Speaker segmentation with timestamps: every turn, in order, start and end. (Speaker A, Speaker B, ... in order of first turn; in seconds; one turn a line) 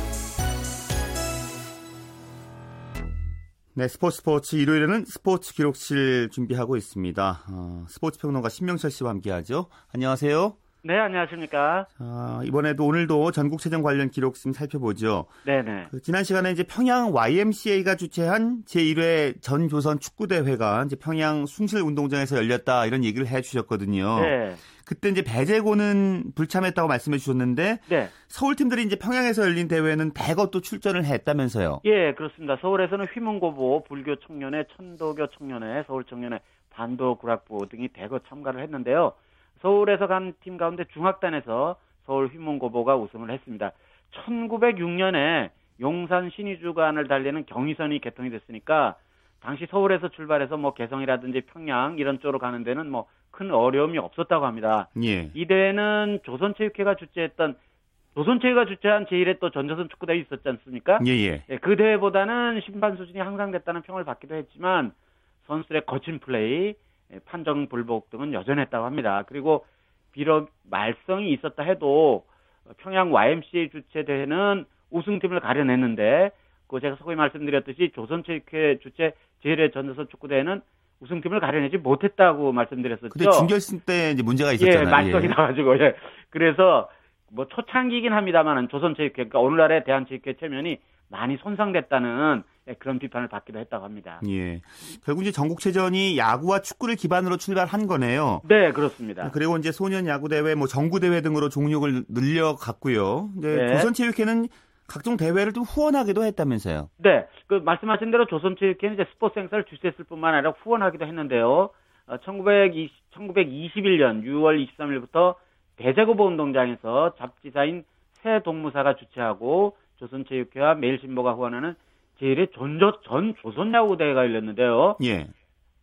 Speaker A: 3.8-10.6
Speaker B: 10.8-11.9
Speaker A: 12.0-15.4
Speaker B: 15.4-15.9
Speaker A: 15.9-31.8
Speaker B: 24.2-24.6
Speaker B: 27.9-28.1
Speaker B: 31.8-57.6
Speaker A: 55.0-55.3
Speaker B: 58.1-64.9
Speaker A: 61.0-61.5
Speaker B: 65.5-83.5
Speaker A: 83.1-85.4
Speaker B: 84.6-94.2
Speaker A: 94.2-98.5
Speaker B: 98.4-99.3
Speaker A: 99.2-106.9
Speaker B: 103.5-103.9
Speaker B: 107.0-125.0
Speaker A: 125.0-125.3